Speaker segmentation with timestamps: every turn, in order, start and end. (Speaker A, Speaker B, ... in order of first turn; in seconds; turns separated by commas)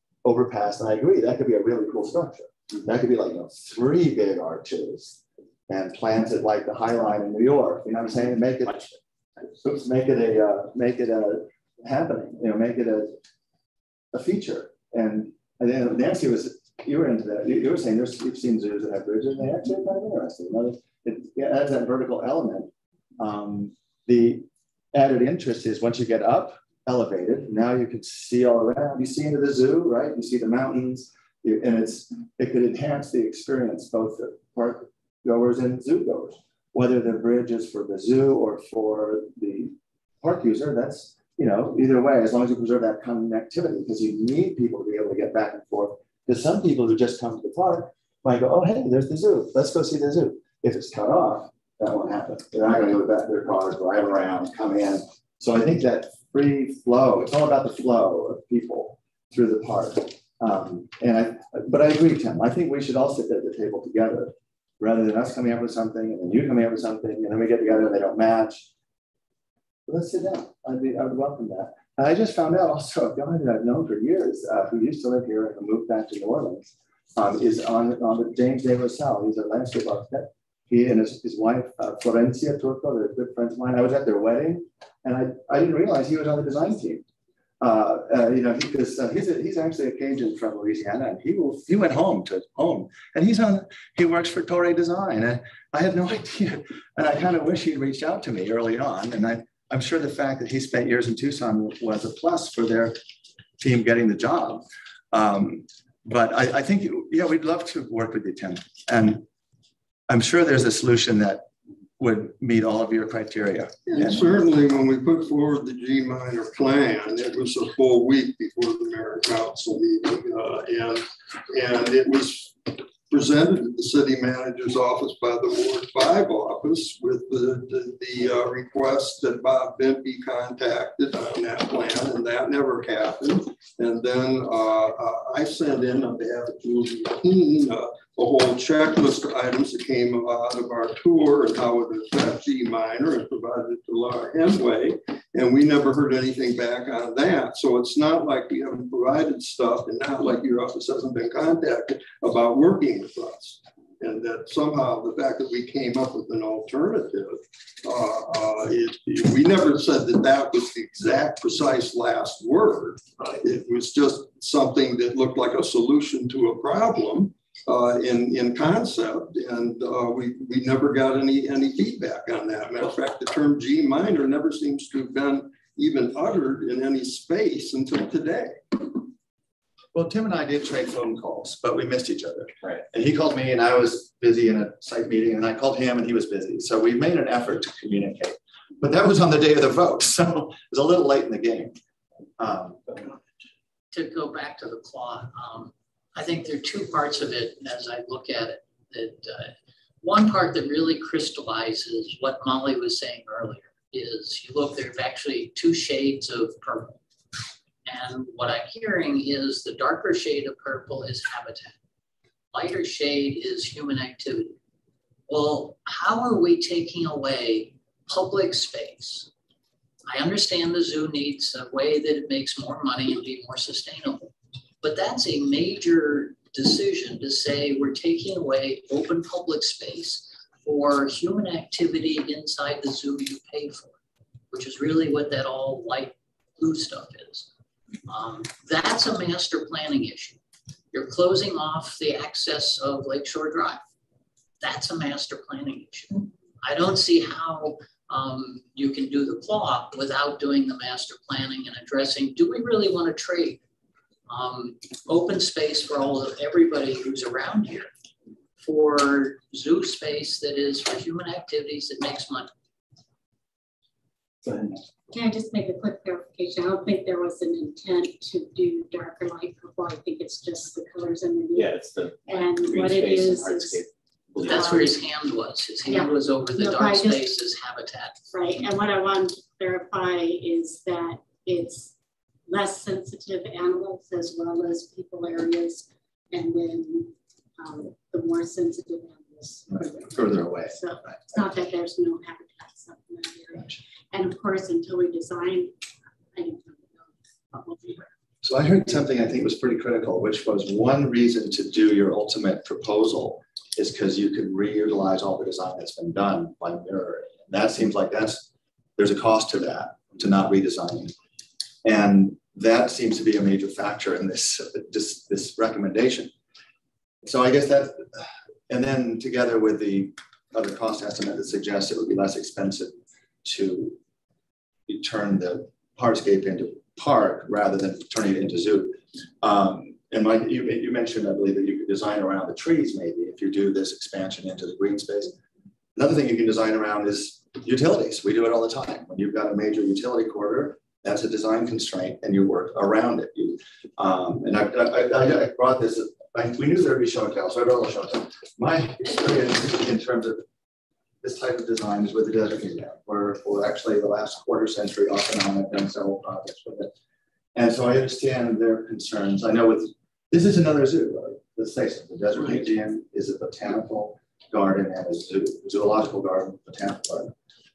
Speaker A: 0.2-8.8, Speaker B: 8.6-9.0, Speaker A: 9.6-13.2, Speaker A: 14.1-68.7, Speaker A: 69.9-87.0, Speaker A: 87.6-103.0, Speaker A: 103.6-109.2, Speaker A: 110.1-111.5, Speaker A: 112.0-114.4, Speaker C: 113.9-178.6, Speaker A: 179.9-191.8, Speaker A: 192.4-193.2, Speaker D: 193.9-206.9, Speaker D: 207.8-211.8, Speaker D: 212.5-214.6, Speaker D: 215.3-219.3, Speaker D: 220.1-224.3, Speaker D: 224.8-233.9, Speaker D: 234.5-237.5, Speaker D: 238.1-240.4, Speaker D: 240.9-243.8, Speaker D: 244.6-253.6, Speaker D: 254.3-257.9, Speaker D: 258.6-262.5, Speaker B: 264.4-264.8, Speaker E: 265.1-271.7, Speaker B: 271.5-274.9, Speaker E: 272.2-273.8, Speaker E: 274.4-275.0, Speaker D: 274.4-278.2, Speaker E: 275.8-277.3, Speaker E: 278.3-281.9, Speaker E: 282.5-295.7, Speaker A: 289.7-291.2, Speaker E: 296.3-298.1, Speaker A: 298.4-308.4, Speaker A: 309.0-311.1, Speaker A: 311.8-316.3, Speaker A: 317.2-324.0, Speaker A: 324.9-335.4, Speaker A: 335.9-350.4, Speaker A: 351.2-356.9, Speaker A: 357.6-367.3